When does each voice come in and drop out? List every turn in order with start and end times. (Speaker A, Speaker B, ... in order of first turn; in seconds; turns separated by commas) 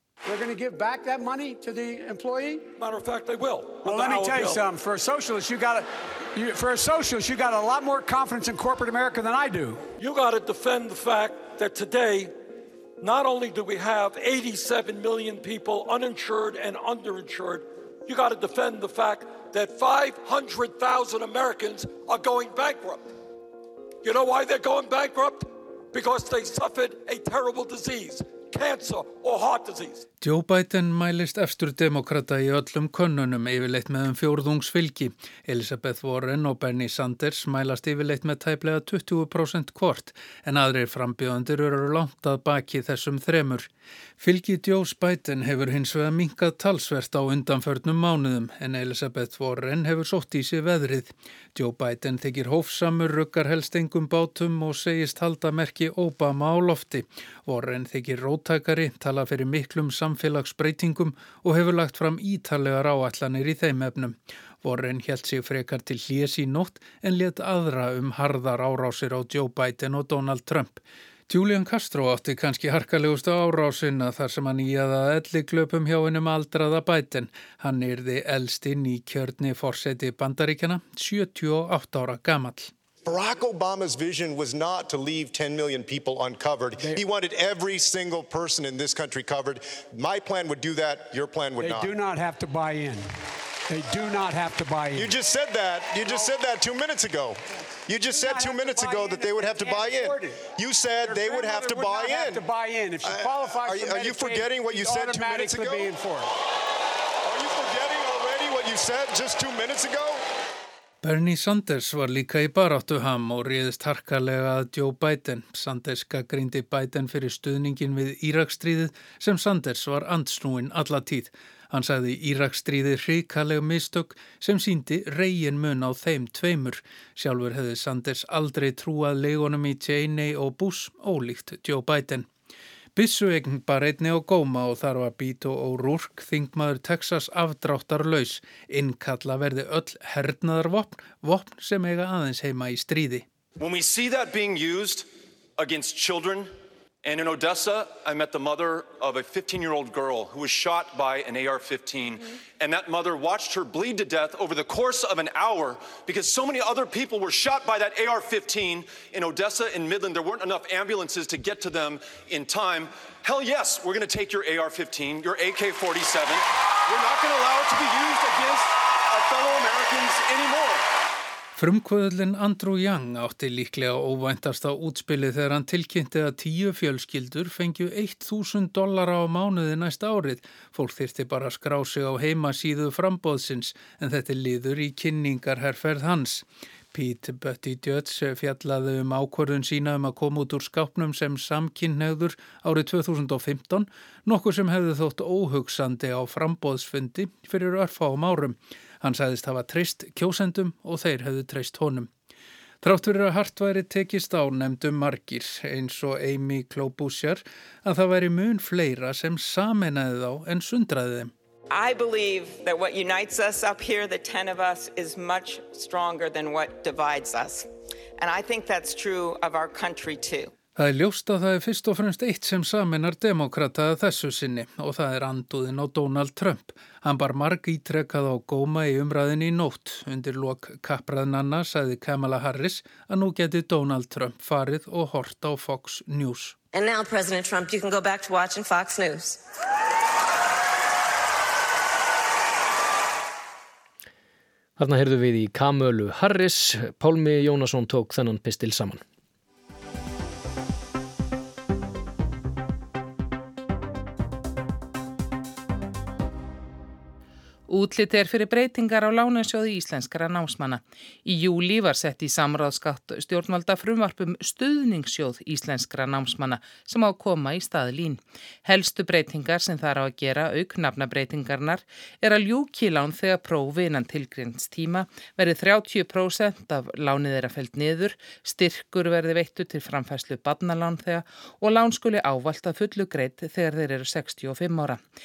Speaker A: 0.2-2.7, Speaker B: 2.8-4.6, Speaker A: 3.8-9.8, Speaker B: 10.0-12.3, Speaker B: 13.0-23.1, Speaker B: 24.0-30.1, Speaker C: 30.2-82.7, Speaker D: 83.0-91.9, Speaker A: 86.8-87.0, Speaker A: 91.6-93.1, Speaker A: 93.7-95.2, Speaker D: 94.9-102.5, Speaker A: 96.0-96.3, Speaker A: 98.0-106.3, Speaker D: 103.0-105.9, Speaker D: 107.2-110.2, Speaker C: 111.0-132.3, Speaker C: 132.9-143.2, Speaker E: 143.6-146.5, Speaker E: 147.0-170.9, Speaker C: 171.6-202.1, Speaker C: 202.8-211.3, Speaker F: 211.7-217.7, Speaker F: 218.2-220.5, Speaker C: 220.8-236.6, Speaker G: 236.7-239.4, Speaker H: 244.8-249.0, Speaker I: 257.7-285.0